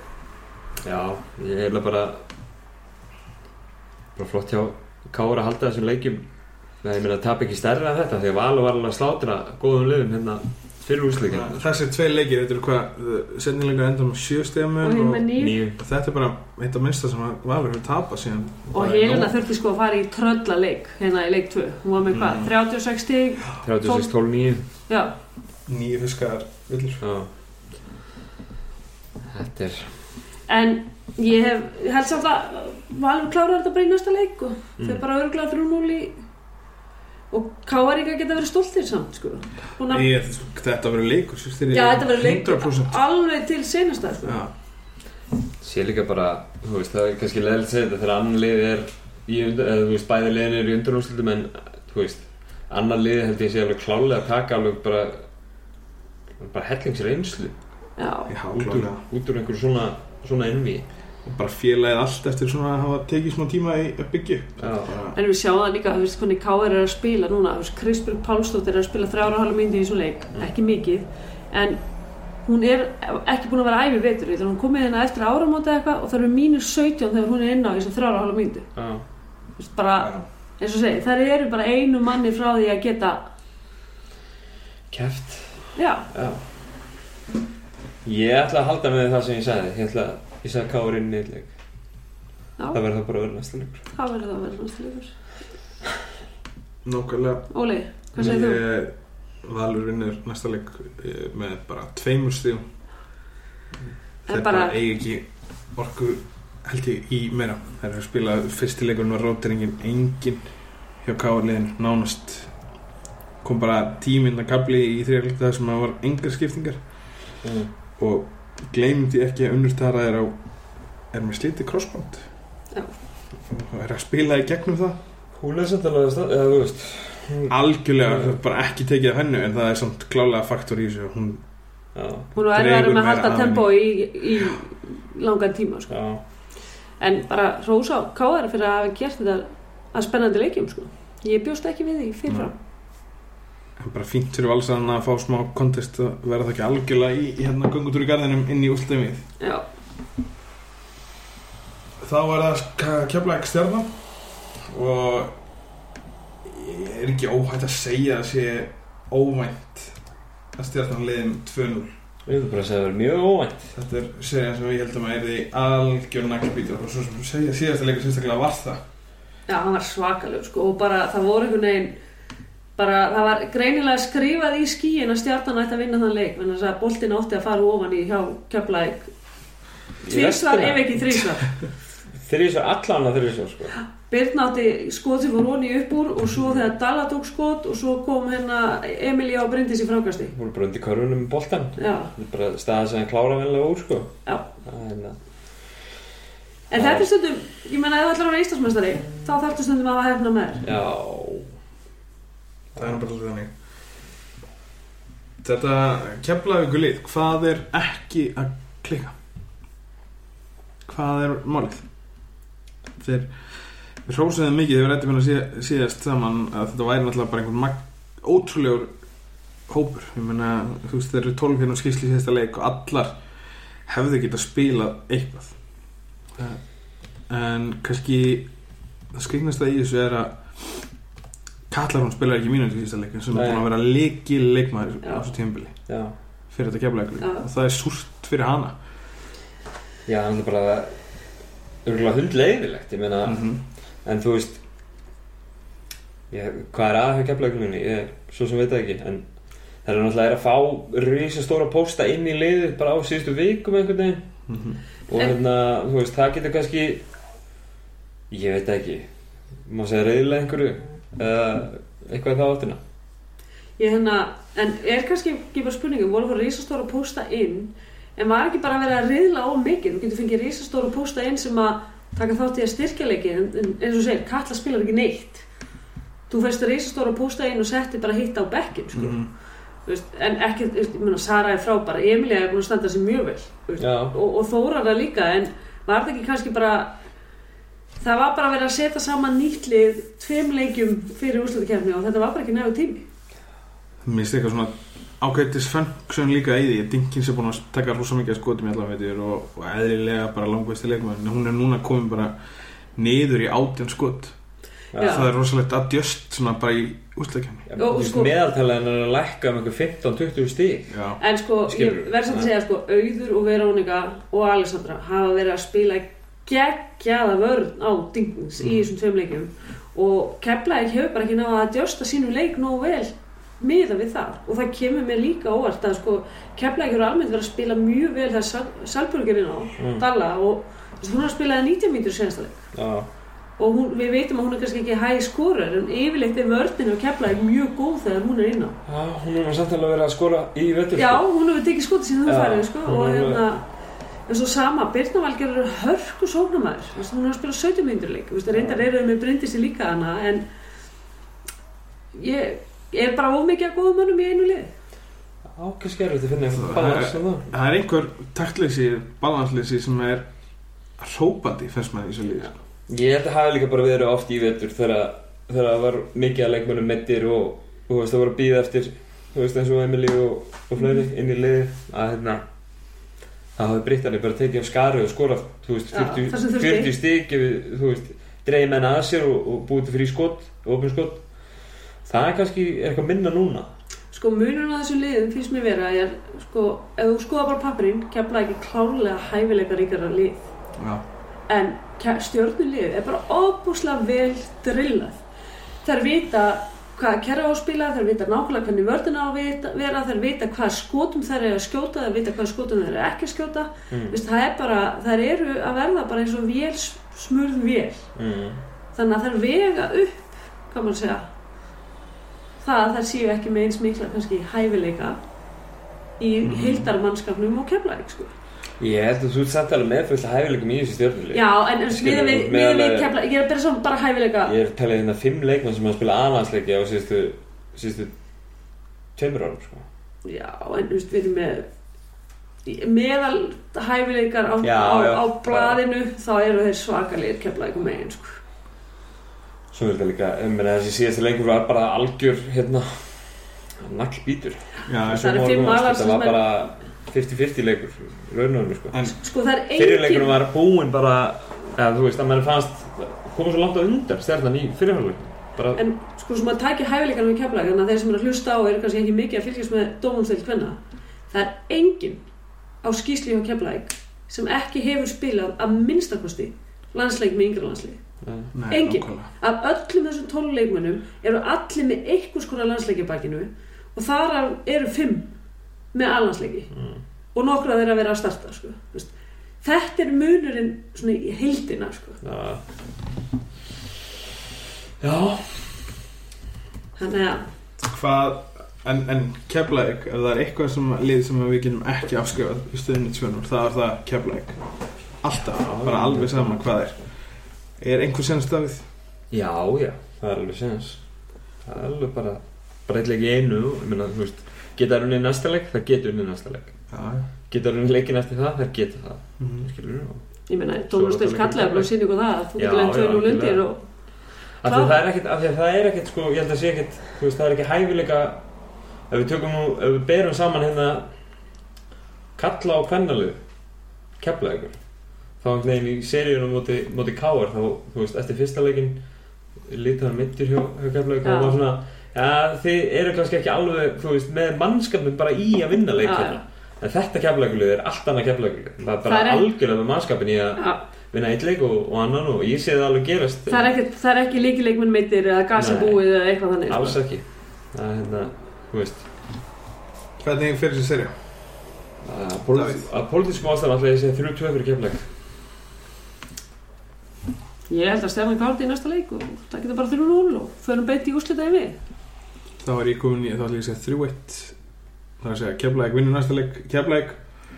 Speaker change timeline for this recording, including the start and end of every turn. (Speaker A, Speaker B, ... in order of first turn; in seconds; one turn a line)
Speaker A: 0.8-2.2
Speaker A: 4.2-6.3
Speaker A: 6.8-11.7
Speaker B: 11.1-19.4
Speaker C: 14.8-15.6
Speaker A: 15.4-15.8
Speaker C: 18.7-24.1
Speaker B: 22.1-22.5
Speaker A: 23.6-24.6
Speaker C: 24.9-25.1
Speaker B: 25.7-27.0
Speaker A: 27.0-27.3
Speaker A: 29.3-29.9
Speaker C: 30.5-36.2
Speaker C: 37.3-40.1
Speaker B: 39.9-43.0
Speaker C: 41.7-44.4
Speaker B: 44.3-44.5
Speaker A: 45.6-55.2
Speaker A: 56.4-57.5
Speaker C: 58.0-58.3
Speaker B: 58.3-59.0
Speaker A: 58.5-60.9
Speaker B: 61.2-65.2
Speaker A: 64.6-65.0
Speaker C: 65.2-71.8
Speaker C: 72.5-78.7
Speaker A: 78.8-79.0
Speaker C: 79.6-83.2
Speaker B: 80.0-80.3
Speaker A: 84.9-86.4
Speaker C: 85.8-86.1
Speaker A: 88.0-91.5
Speaker A: 92.7-93.8
Speaker C: 93.9-95.1
Speaker B: 96.8-97.5
Speaker C: 97.5-98.6
Speaker B: 98.2-102.6
Speaker C: 104.3-104.8
Speaker B: 104.3-110.5
Speaker B: 111.0-112.5
Speaker B: 113.4-116.8
Speaker A: 117.4-117.7
Speaker B: 118.0-120.4
Speaker B: 121.1-122.3
Speaker B: 123.5-125.0
Speaker A: 125.3-128.3
Speaker B: 127.5-131.4
Speaker A: 131.9-132.3
Speaker B: 132.3-133.7
Speaker C: 132.3-135.9
Speaker A: 135.9-136.2
Speaker C: 137.0-142.6
Speaker B: 143.8-149.3
Speaker C: 149.4-149.7
Speaker B: 152.0-154.0
Speaker B: 154.5-155.4
Speaker B: 156.4-160.0
Speaker B: 160.6-161.9
Speaker A: 162.3-163.7
Speaker B: 163.7-168.8
Speaker C: 169.5-171.9
Speaker C: 172.8-179.1
Speaker A: 180.0-181.2
Speaker C: 180.1-181.5
Speaker A: 182.2-183.8
Speaker C: 184.1-190.3
Speaker A: 186.4-186.7
Speaker A: 190.3-195.2
Speaker C: 191.8-192.1
Speaker C: 196.7-200.7
Speaker A: 196.8-197.1
Speaker A: 200.6-201.5
Speaker B: 202.8-203.5
Speaker B: 205.4-209.2
Speaker B: 210.8-211.9
Speaker B: 213.0-218.9
Speaker B: 219.7-223.2
Speaker B: 223.9-225.6
Speaker B: 226.4-226.6
Speaker B: 227.3-228.5
Speaker B: 229.1-230.8
Speaker B: 231.7-235.7
Speaker A: 233.3-233.7
Speaker A: 235.9-236.2
Speaker B: 236.5-238.8
Speaker C: 237.2-237.5
Speaker A: 240.1-240.9
Speaker A: 241.8-243.4
Speaker B: 243.2-243.6
Speaker A: 244.1-244.6
Speaker A: 246.3-249.2
Speaker A: 249.8-254.3
Speaker B: 254.5-254.8
Speaker A: 255.1-257.0
Speaker A: 258.3-259.1
Speaker A: 259.7-262.8
Speaker C: 263.8-275.5
Speaker C: 276.3-279.2
Speaker B: 278.9-279.3
Speaker C: 279.9-287.0
Speaker A: 283.8-284.2
Speaker C: 288.0-293.1
Speaker B: 294.0-302.4
Speaker B: 303.0-304.4
Speaker A: 304.9-305.3
Speaker C: 305.0-305.3
Speaker B: 305.0-307.6
Speaker A: 307.7-311.0
Speaker C: 307.8-308.3
Speaker B: 310.9-311.2
Speaker C: 311.2-332.7
Speaker A: 311.6-312.5
Speaker A: 329.8-330.1
Speaker A: 332.7-333.1
Speaker C: 333.6-338.8
Speaker A: 338.9-341.2
Speaker C: 341.0-343.6
Speaker A: 342.2-343.4
Speaker C: 344.3-350.4
Speaker A: 348.5-348.9
Speaker C: 352.1-354.7
Speaker A: 355.6-357.5
Speaker B: 356.5-360.2
Speaker B: 361.0-362.6
Speaker A: 362.9-372.4
Speaker A: 373.6-381.2
Speaker C: 375.9-376.9
Speaker A: 382.1-383.7
Speaker C: 384.1-390.5
Speaker B: 390.8-391.0
Speaker C: 391.5-395.2
Speaker C: 395.8-408.1
Speaker A: 403.9-404.2
Speaker A: 408.2-408.6
Speaker C: 408.9-411.3
Speaker C: 412.6-415.2
Speaker C: 416.2-418.3
Speaker B: 416.4-416.9
Speaker A: 418.8-423.1
Speaker C: 421.3-424.5
Speaker A: 424.4-428.1
Speaker A: 429.2-429.9
Speaker C: 430.2-431.7
Speaker C: 432.6-438.4
Speaker A: 434.6-435.8
Speaker A: 439.7-449.1
Speaker B: 444.9-445.4
Speaker C: 445.1-446.4
Speaker C: 449.1-450.4
Speaker A: 449.7-455.8
Speaker C: 455.8-460.8
Speaker C: 461.3-462.2
Speaker C: 462.8-468.0
Speaker A: 468.2-468.5
Speaker B: 468.5-469.3
Speaker C: 468.7-475.3
Speaker C: 475.9-476.7
Speaker A: 476.7-477.0
Speaker C: 477.4-479.1
Speaker C: 479.6-482.2
Speaker A: 482.2-482.6
Speaker A: 485.0-485.9
Speaker C: 487.0-487.5
Speaker B: 487.8-494.6
Speaker B: 495.2-497.0
Speaker A: 495.5-496.6
Speaker B: 497.8-498.9
Speaker A: 499.3-501.0
Speaker A: 501.6-506.7
Speaker B: 506.9-507.3
Speaker A: 507.5-510.2
Speaker B: 509.4-509.7
Speaker C: 510.5-513.8
Speaker A: 510.9-511.9
Speaker A: 512.6-513.7
Speaker A: 514.6-518.4
Speaker C: 514.7-515.0
Speaker A: 519.1-521.1
Speaker A: 522.4-523.4
Speaker A: 524.2-524.8
Speaker A: 525.4-529.0
Speaker A: 529.6-543.7
Speaker C: 531.2-531.6
Speaker C: 536.0-536.4
Speaker C: 539.1-539.4
Speaker C: 540.6-540.8
Speaker C: 543.5-547.0
Speaker A: 545.5-546.1
Speaker A: 546.7-549.0
Speaker B: 550.2-551.1
Speaker A: 552.0-555.1
Speaker B: 552.5-552.9
Speaker C: 557.7-561.8
Speaker B: 562.6-564.6
Speaker B: 565.2-567.2